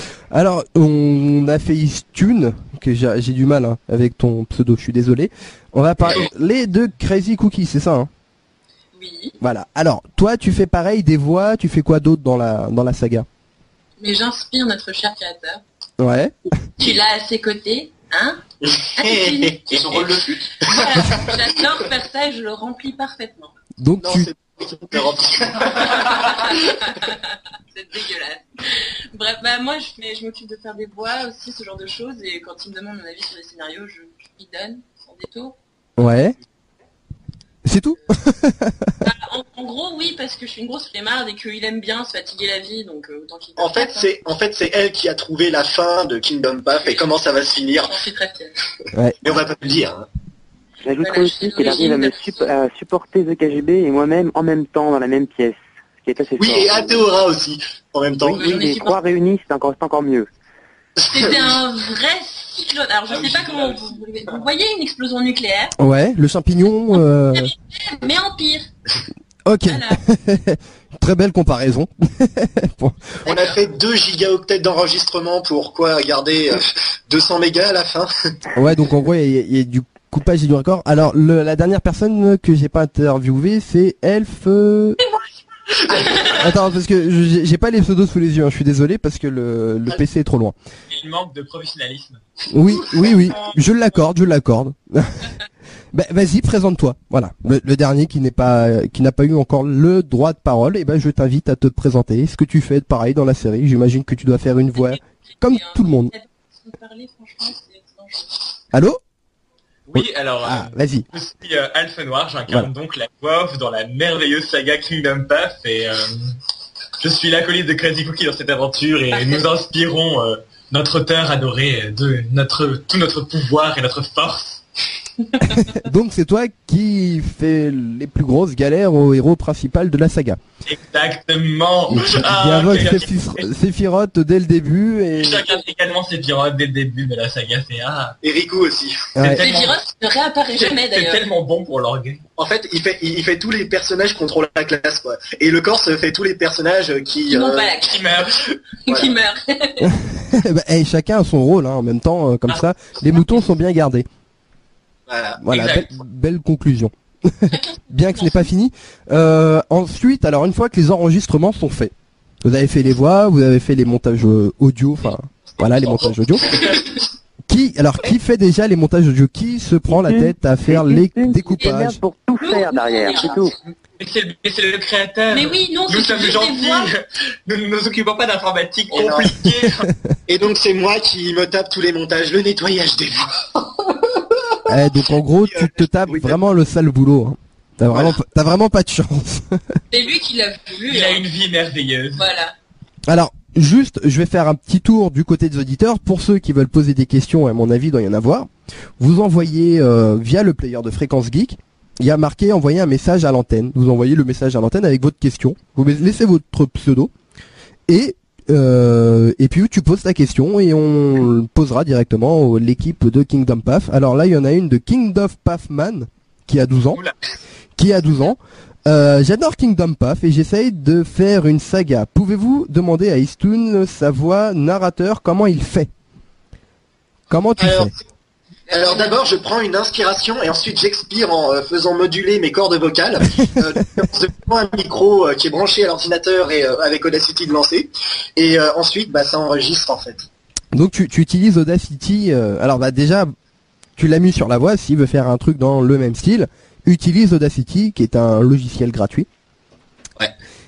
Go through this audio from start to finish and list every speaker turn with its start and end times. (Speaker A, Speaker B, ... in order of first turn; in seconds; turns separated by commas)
Speaker A: 0.3-8.1, Speaker B: 8.9-9.3, Speaker A: 9.4-13.2, Speaker B: 14.0-15.6, Speaker A: 16.0-16.4, Speaker B: 16.8-18.4, Speaker C: 18.6-21.4, Speaker B: 19.0-23.5, Speaker D: 19.9-20.2, Speaker A: 23.8-24.3, Speaker C: 24.0-26.5, Speaker B: 25.9-35.6, Speaker A: 36.0-36.4, Speaker A: 37.6-38.9, Speaker B: 39.0-44.1, Speaker C: 43.6-47.9, Speaker B: 47.9-48.5, Speaker C: 49.2-50.1, Speaker E: 50.8-57.0, Speaker B: 51.0-52.5, Speaker C: 56.4-58.6, Speaker E: 58.2-60.3, Speaker B: 58.3-59.0, Speaker C: 61.0-61.3, Speaker B: 61.0-65.8, Speaker D: 63.1-63.9, Speaker A: 65.8-67.5, Speaker B: 67.0-68.7, Speaker A: 69.5-73.2, Speaker B: 69.7-70.0, Speaker C: 73.2-78.4, Speaker A: 78.5-85.0, Speaker A: 86.2-90.5, Speaker D: 90.9-92.2, Speaker A: 92.5-95.3, Speaker A: 95.9-106.1, Speaker B: 104.8-108.3, Speaker A: 108.7-109.0, Speaker D: 109.9-116.3, Speaker A: 109.9-111.0, Speaker D: 117.0-124.6, Speaker B: 119.1-119.5, Speaker A: 125.5-130.4, Speaker D: 130.6-133.5, Speaker A: 131.9-135.5, Speaker D: 135.2-138.2, Speaker C: 138.2-139.1, Speaker A: 139.2-139.4, Speaker D: 139.2-139.8, Speaker B: 139.4-141.2, Speaker D: 140.5-142.2, Speaker C: 142.4-147.7, Speaker B: 147.3-148.1, Speaker D: 147.8-148.6, Speaker B: 148.9-150.0, Speaker A: 149.8-154.1, Speaker C: 155.1-155.4, Speaker A: 155.4-161.9, Speaker D: 155.5-155.9, Speaker B: 157.5-158.5, Speaker A: 162.4-166.5, Speaker C: 165.6-167.0, Speaker A: 167.5-172.0, Speaker E: 169.9-173.6, Speaker B: 172.4-173.5, Speaker D: 174.0-179.9, Speaker B: 175.3-176.9, Speaker C: 178.9-179.4, Speaker A: 179.7-179.9, Speaker C: 180.3-184.6, Speaker A: 184.7-189.6, Speaker C: 185.4-186.4, Speaker C: 187.9-188.2, Speaker B: 189.9-191.2, Speaker D: 190.9-192.2, Speaker B: 192.2-192.5, Speaker A: 193.1-207.1, Speaker A: 207.9-217.0, Speaker A: 217.8-225.9, Speaker A: 227.3-227.9, Speaker C: 227.6-228.0, Speaker B: 228.7-229.2, Speaker C: 228.7-240.3, Speaker A: 240.7-243.3, Speaker A: 244.0-249.3